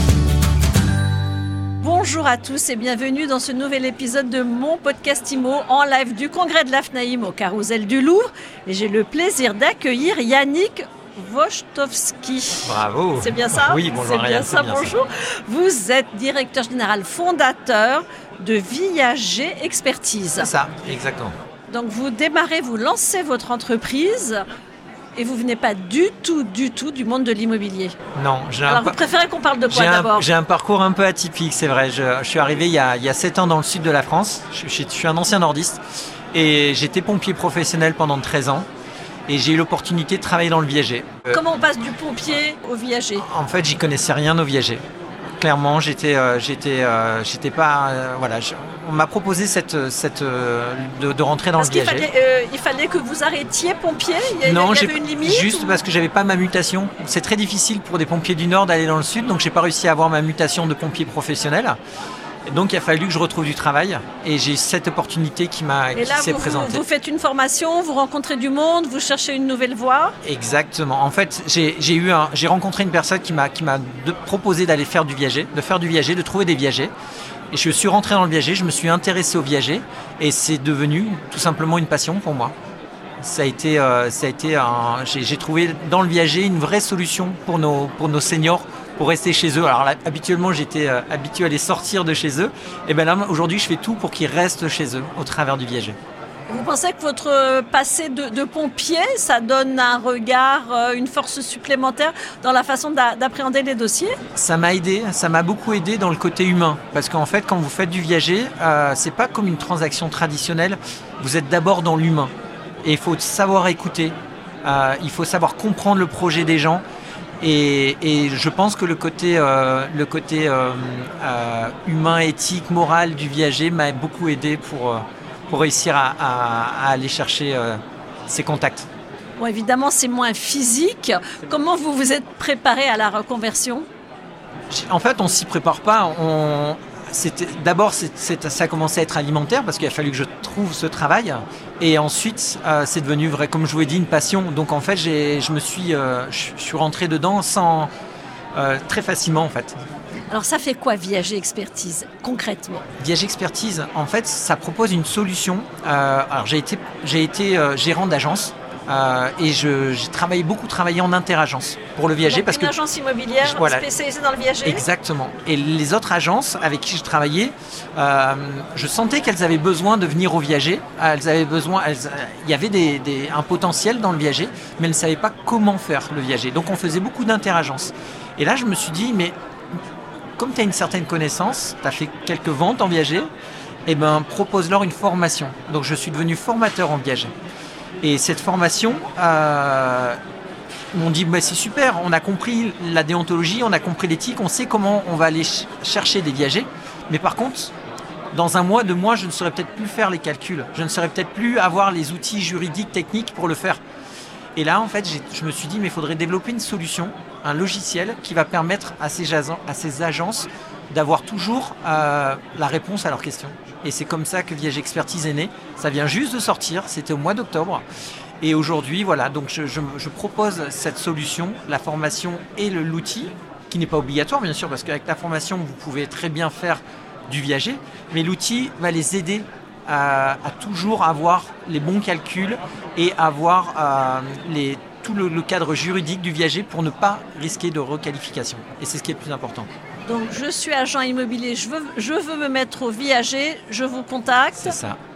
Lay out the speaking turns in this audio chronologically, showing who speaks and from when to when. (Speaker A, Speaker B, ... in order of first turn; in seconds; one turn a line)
Speaker A: 1.8-20.5
Speaker B: 12.6-15.0
Speaker B: 20.4-21.3
Speaker A: 21.7-24.4
Speaker A: 25.1-27.9
Speaker B: 28.1-29.0
Speaker A: 28.7-30.3
Speaker B: 29.7-35.8
Speaker B: 36.3-38.7
Speaker B: 39.3-41.4
Speaker A: 41.3-43.2
Speaker B: 43.2-44.8
Speaker B: 45.4-52.1
Speaker A: 51.6-55.8
Speaker B: 54.4-61.8
Speaker B: 62.5-66.8
Speaker A: 65.9-70.2
Speaker B: 70.2-76.9
Speaker B: 77.5-82.5
Speaker B: 83.2-96.0
Speaker A: 96.5-104.2
Speaker B: 104.3-112.3
Speaker B: 112.8-116.8
Speaker B: 117.4-128.9
Speaker A: 129.4-133.8
Speaker B: 134.7-147.9
Speaker B: 148.5-149.8
Speaker A: 150.3-152.8
Speaker B: 153.0-162.7
Speaker A: 162.2-164.8
Speaker B: 163.4-163.8
Speaker B: 164.6-179.3
Speaker B: 180.4-183.3
Speaker B: 183.9-187.3
Speaker B: 188.0-190.2
Speaker B: 190.9-197.7
Speaker B: 198.3-203.8
Speaker B: 204.6-217.8
Speaker B: 218.4-239.7
Speaker A: 240.1-244.8
Speaker B: 244.6-245.0